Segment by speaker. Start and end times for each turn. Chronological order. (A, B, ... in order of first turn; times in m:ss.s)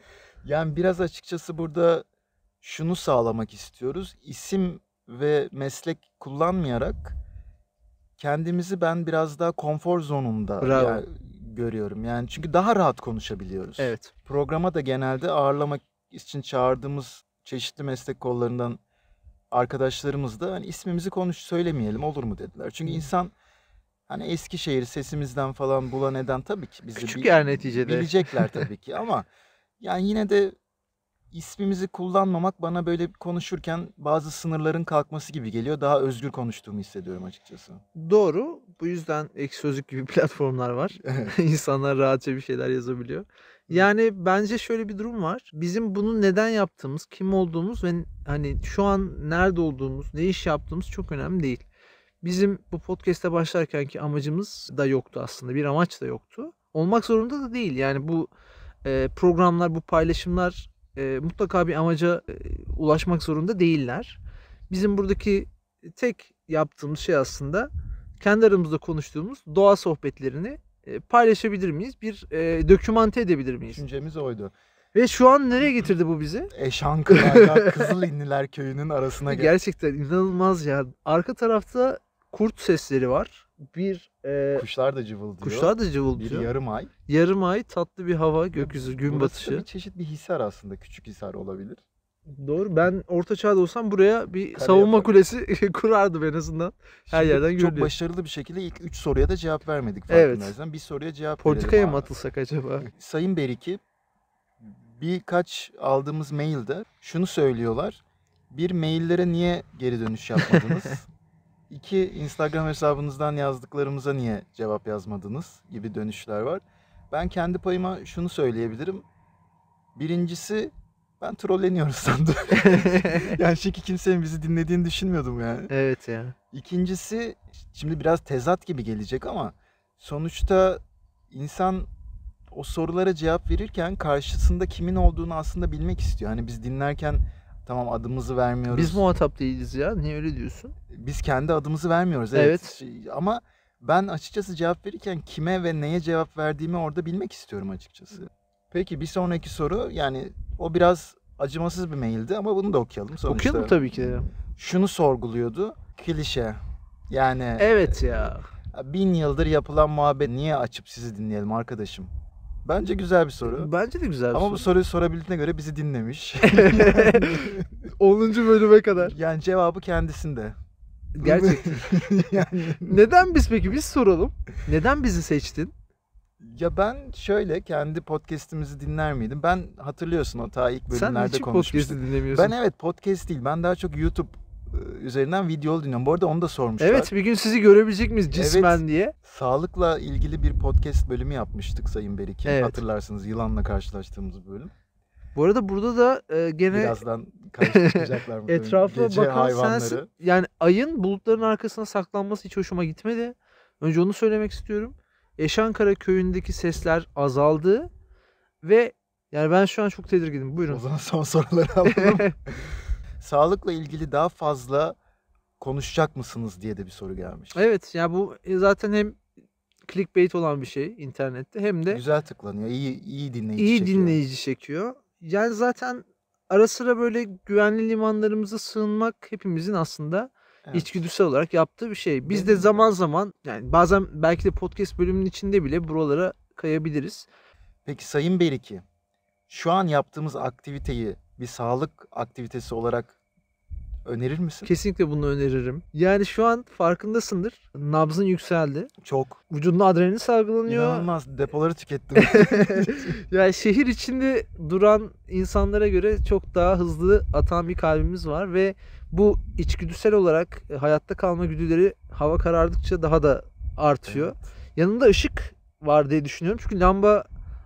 0:00.4-0:02.0 A
0:02.6-0:07.2 A
0:08.2-0:18.8 A
0:10.6-0:11.0 B
0:13.8-0:14.1 B
0:19.5-0:23.3 A
0:24.1-0:29.3 A
0:27.0-0:28.6 B
0:29.8-0:30.5 A
0:31.3-0:37.8 A
0:38.0-0:51.6 B
0:41.0-0:41.3 A
0:52.2-0:58.3 B
0:58.8-1:13.8 B
1:13.7-1:14.5 A
1:14.9-1:16.5 B
1:16.5-1:19.6 A
1:17.1-1:17.9 B
1:19.3-1:24.6 B
1:24.6-1:26.9 A
1:25.4-1:26.5 B
1:27.1-1:29.6 B
1:28.6-1:31.8 A
1:32.3-1:37.9 B
1:34.6-1:35.1 A
1:37.1-1:42.1 A
1:40.1-1:40.5 B
1:41.4-1:42.9 B
1:42.9-1:43.8 A
1:44.6-1:51.1 A
1:51.7-1:59.0 A
1:59.9-2:05.7 A
2:02.6-2:03.3 B
2:05.7-2:06.3 B
2:06.5-2:11.9 A
2:12.5-2:19.0 A
2:18.7-2:20.7 B
2:20.9-2:33.8 A
2:22.3-2:22.8 B
2:33.2-2:34.3 B
2:34.6-2:42.1 A
2:37.6-2:38.5 B
2:42.6-2:43.7 A
2:43.4-2:44.6 B
2:44.3-2:47.7 A
2:46.4-2:49.1 B
2:49.0-2:50.6 A
2:51.2-2:51.9 B
2:51.2-2:53.1 A
2:52.8-2:55.7 B
2:56.4-3:07.1 A
3:00.9-3:02.5 B
3:06.8-3:09.1 B
3:08.3-3:14.7 A
3:12.4-3:12.8 B
3:15.3-3:17.0 B
3:16.7-3:20.1 A
3:17.6-3:27.9 B
3:28.6-3:30.8 B
3:30.7-3:35.0 A
3:31.8-3:32.3 B
3:35.6-3:37.6 A
3:37.5-3:39.2 B
3:39.8-3:42.0 B
3:41.9-3:44.2 A
3:43.6-3:57.3 B
3:50.7-3:51.0 A
3:52.2-3:52.8 A
3:57.8-3:58.8 A
3:59.5-4:03.2 A
4:04.0-4:04.7 A
4:04.6-4:08.9 B
4:09.0-4:09.4 A
4:09.5-4:11.1 B
4:10.7-4:13.2 A
4:12.2-4:27.3 B
4:24.0-4:24.4 A